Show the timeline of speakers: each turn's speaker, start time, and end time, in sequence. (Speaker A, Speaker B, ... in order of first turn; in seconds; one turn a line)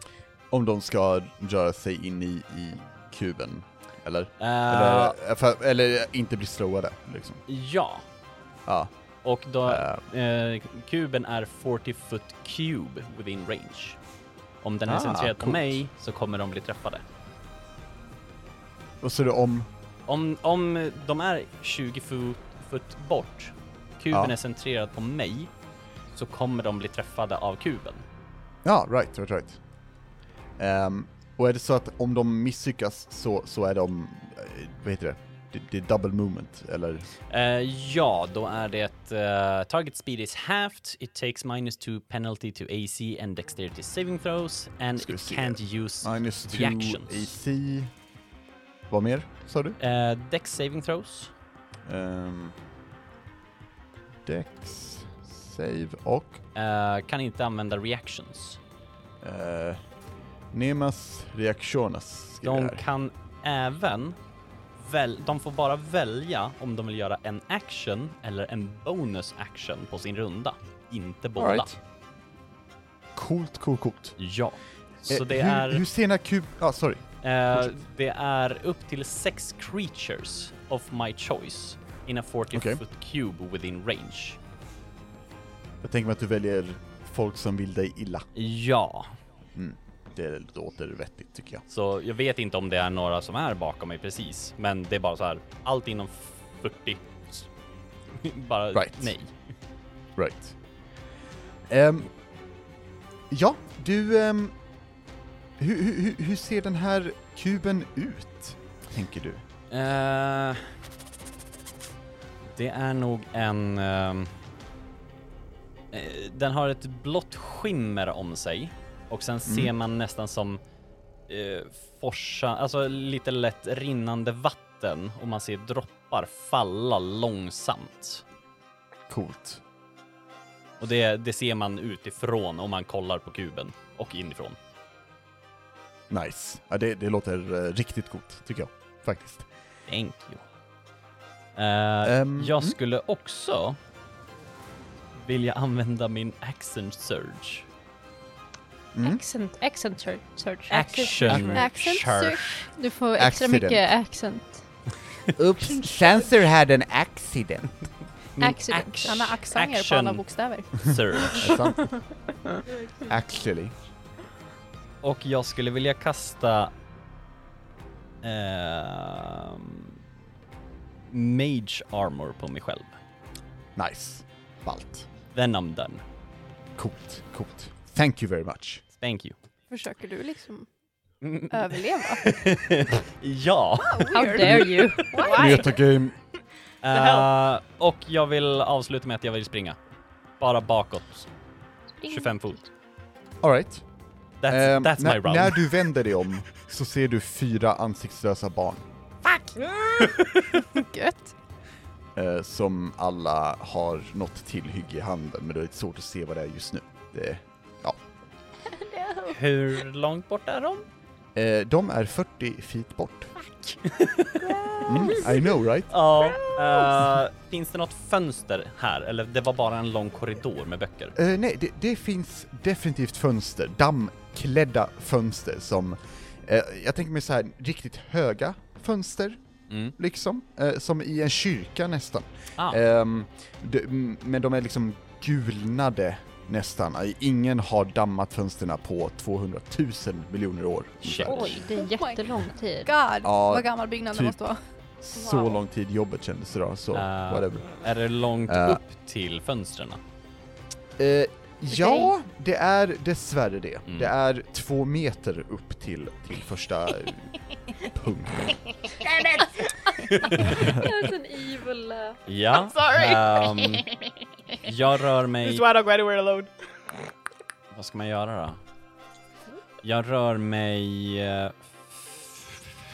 Speaker A: 0.5-7.4
Speaker B: 4.4-5.2
Speaker B: 7.5-8.0
Speaker A: 8.7-8.9
Speaker B: 9.2-14.0
Speaker A: 9.7-10.1
Speaker B: 14.6-17.0
Speaker A: 14.9-15.8
Speaker A: 19.0-19.7
Speaker B: 20.1-25.5
Speaker B: 26.1-28.0
Speaker A: 28.6-29.6
Speaker A: 30.6-37.1
Speaker B: 37.3-47.4
Speaker A: 45.0-47.9
Speaker A: 48.9-49.8
Speaker B: 49.8-51.3
Speaker A: 51.9-52.5
Speaker A: 54.2-56.4
Speaker B: 56.5-58.6
Speaker A: 59.2-59.8
Speaker A: 60.5-62.8
Speaker B: 62.4-64.2
Speaker B: 64.8-71.7
Speaker A: 71.4-71.8
Speaker A: 73.1-74.2
Speaker B: 74.2-75.8
Speaker A: 75.1-77.0
Speaker B: 77.2-84.4
Speaker A: 82.5-82.8
Speaker A: 85.8-88.3
Speaker B: 88.3-89.2
Speaker A: 89.5-91.6
Speaker B: 91.7-97.5
Speaker B: 98.1-99.3
Speaker A: 98.7-99.1
Speaker A: 100.2-100.5
Speaker A: 101.7-102.1
Speaker A: 103.3-104.5
Speaker A: 105.6-109.4
Speaker B: 109.7-110.7
Speaker B: 112.5-114.3
Speaker B: 115.9-120.6
Speaker A: 119.5-119.7
Speaker B: 121.3-128.2
Speaker A: 129.1-129.6
Speaker B: 130.8-134.6
Speaker A: 136.1-139.5
Speaker B: 139.9-140.5
Speaker B: 141.6-143.8
Speaker A: 142.0-142.8
Speaker B: 145.2-147.7
Speaker A: 148.9-149.2
Speaker C: 149.0-151.6
Speaker B: 150.7-152.5
Speaker A: 151.2-151.6
Speaker D: 151.5-152.6
Speaker C: 152.6-154.7
Speaker A: 153.2-153.9
Speaker A: 155.4-157.9
Speaker B: 158.4-161.6
Speaker C: 158.4-159.3
Speaker D: 159.0-161.7
Speaker A: 161.3-162.0
Speaker A: 163.1-163.7
Speaker B: 165.0-166.7
Speaker B: 168.2-169.9
Speaker B: 171.1-172.9
Speaker A: 173.8-175.1
Speaker B: 175.3-176.0
Speaker A: 176.8-178.8
Speaker B: 179.0-179.3
Speaker D: 179.7-180.7
Speaker B: 181.2-185.0
Speaker D: 181.5-182.2
Speaker D: 183.8-185.7
Speaker C: 184.1-185.5
Speaker E: 185.1-185.8
Speaker A: 185.3-186.2
Speaker B: 186.8-189.8
Speaker E: 186.9-187.3
Speaker B: 190.4-191.3
Speaker C: 192.0-192.3
Speaker B: 192.0-192.7
Speaker A: 193.4-193.8
Speaker B: 194.4-195.6
Speaker A: 194.5-198.8
Speaker E: 199.6-199.9
Speaker D: 200.6-201.3
Speaker A: 202.1-208.0
Speaker E: 208.9-209.3
Speaker B: 209.3-210.8
Speaker A: 211.3-213.8
Speaker B: 213.8-214.7
Speaker A: 214.8-215.9
Speaker E: 214.8-215.2
Speaker B: 215.9-221.2
Speaker A: 221.2-229.4
Speaker B: 229.7-229.9
Speaker A: 229.9-241.6
Speaker B: 241.0-241.5
Speaker C: 241.2-242.9
Speaker D: 241.4-244.6
Speaker A: 243.2-244.4
Speaker A: 245.0-247.8
Speaker B: 246.9-250.0
Speaker A: 248.5-248.8
Speaker A: 251.0-258.7
Speaker B: 253.9-254.1
Speaker E: 259.0-259.6
Speaker B: 260.1-260.5
Speaker C: 260.3-262.2
Speaker A: 260.5-260.8
Speaker B: 262.2-263.9
Speaker E: 262.5-263.3
Speaker B: 264.6-265.6
Speaker E: 265.4-266.5
Speaker B: 267.7-268.6
Speaker B: 269.8-272.6